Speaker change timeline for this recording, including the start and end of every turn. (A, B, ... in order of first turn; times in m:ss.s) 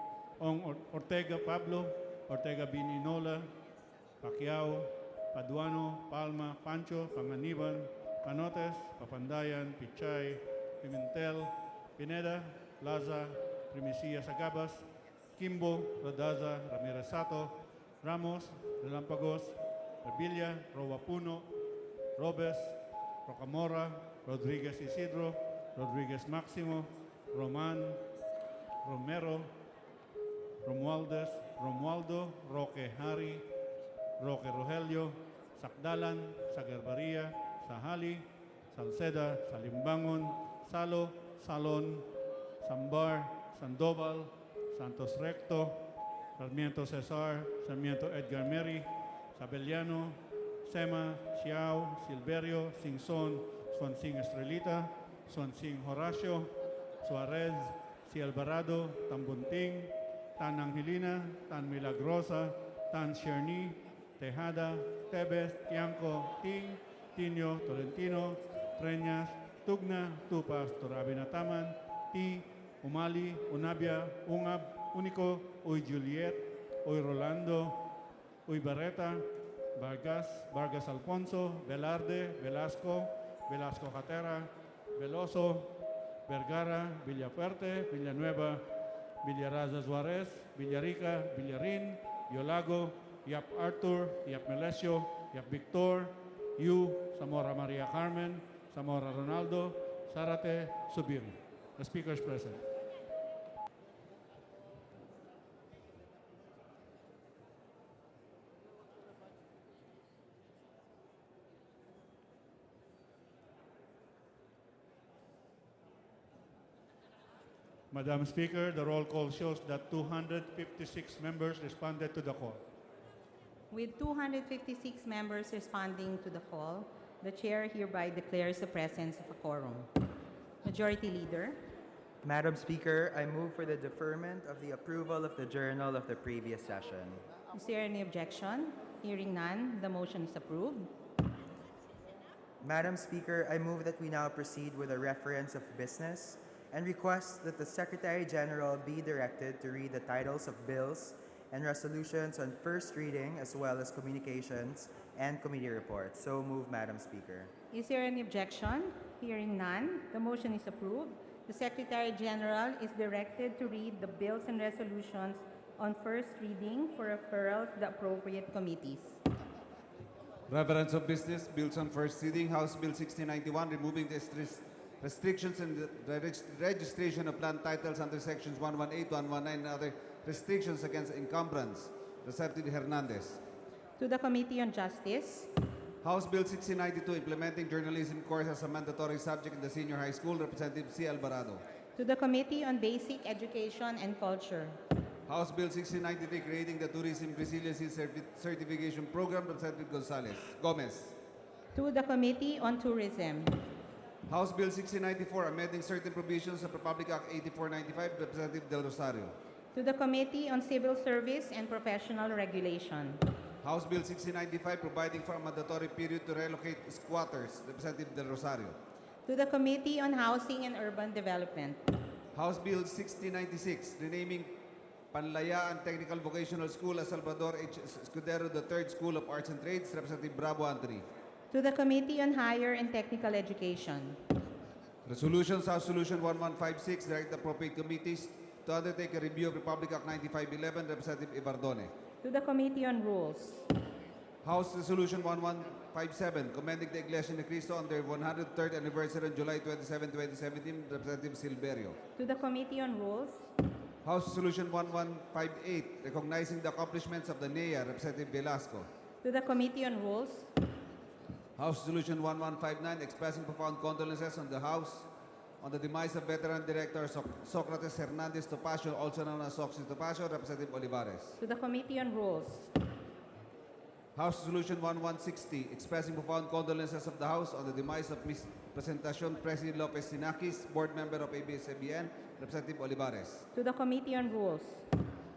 0:00.4-0:03.5 A
0:04.2-0:14.8 A
0:15.4-0:21.5 A
0:22.2-0:28.0 A
0:28.8-0:29.5 A
0:30.6-0:33.4 A
0:34.2-0:42.1 A
0:42.6-0:45.8 A
0:46.4-0:56.5 A
0:57.0-1:17.8 A
1:18.5-1:25.8 A
1:26.3-1:28.6 A
1:29.2-1:42.6 A
1:57.9-2:02.6 A
2:03.7-2:09.9 B
2:10.6-2:11.6 B
2:12.2-2:17.2 C
2:17.5-2:20.9 B
2:22.6-2:37.5 C
2:37.7-2:49.2 B
2:50.5-3:03.4 D
3:04.0-3:05.5 B
3:06.0-3:11.6 D
3:12.0-3:14.8 B
3:15.3-3:21.2 D
3:21.7-3:23.6 B
3:24.3-3:29.3 D
3:29.7-3:33.2 B
3:33.6-3:38.8 D
3:39.3-3:41.8 B
3:42.3-3:44.6 D
3:45.1-3:51.1 D
3:51.5-3:54.2 B
3:55.1-4:01.9 D
4:02.2-4:03.7 B
4:04.4-4:12.0 D
4:12.2-4:13.5 B
4:14.0-4:18.9 D
4:19.2-4:20.5 B
4:21.6-4:25.1 D
4:25.6-4:31.4 D
4:31.4-4:32.7 B
4:34.2-4:43.5 D
4:43.5-4:44.9 B